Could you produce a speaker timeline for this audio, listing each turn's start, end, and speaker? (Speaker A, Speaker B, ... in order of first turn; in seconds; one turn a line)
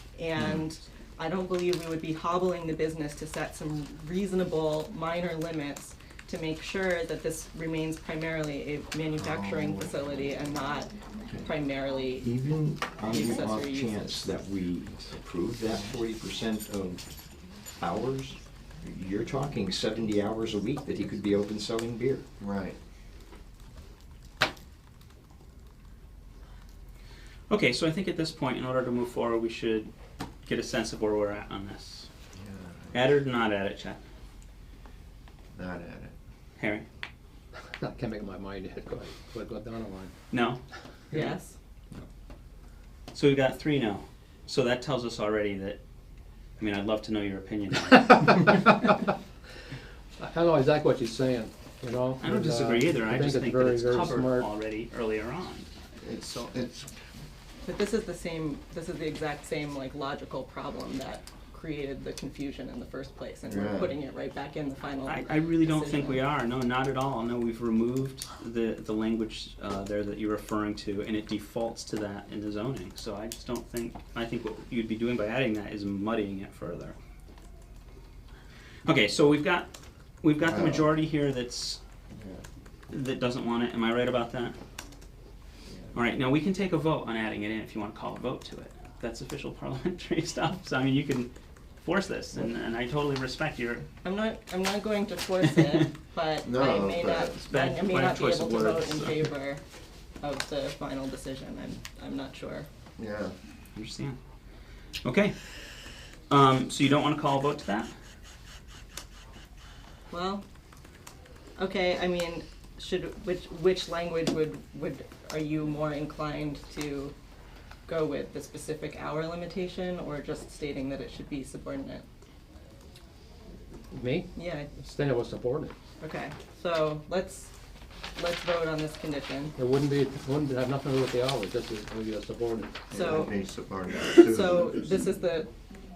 Speaker A: 0.2-12.4
Speaker B: 9.1-10.0
Speaker C: 12.2-17.0
Speaker A: 13.1-14.2
Speaker C: 17.8-22.3
Speaker B: 22.4-22.8
Speaker D: 27.5-29.9
Speaker D: 30.4-32.1
Speaker B: 32.3-33.1
Speaker D: 32.9-34.0
Speaker B: 35.5-36.1
Speaker D: 36.6-36.9
Speaker E: 37.8-40.1
Speaker D: 40.3-41.3
Speaker A: 41.1-41.5
Speaker D: 43.1-45.8
Speaker D: 46.6-48.5
Speaker E: 47.9-49.1
Speaker E: 50.2-54.5
Speaker D: 52.2-56.5
Speaker B: 56.0-56.9
Speaker A: 57.6-66.2
Speaker B: 63.5-63.9
Speaker D: 65.0-77.0
Speaker D: 78.8-79.7
Speaker D: 80.2-81.8
Speaker B: 80.4-80.9
Speaker B: 82.1-82.4
Speaker D: 82.9-84.5
Speaker D: 85.9-93.8
Speaker A: 94.0-99.6
Speaker B: 96.4-97.4
Speaker D: 97.4-99.3
Speaker A: 100.2-102.7
Speaker B: 103.0-103.3
Speaker D: 103.7-104.2
Speaker D: 105.0-105.5
Speaker D: 106.3-107.9
Speaker A: 110.1-110.4
Speaker A: 111.6-117.1
Speaker A: 117.9-122.0
Speaker E: 123.9-125.7
Speaker A: 124.3-124.7
Speaker A: 126.0-127.5
Speaker A: 128.2-129.6
Speaker E: 129.6-132.9
Speaker B: 132.9-134.8
Speaker A: 132.9-133.3
Speaker A: 134.2-135.5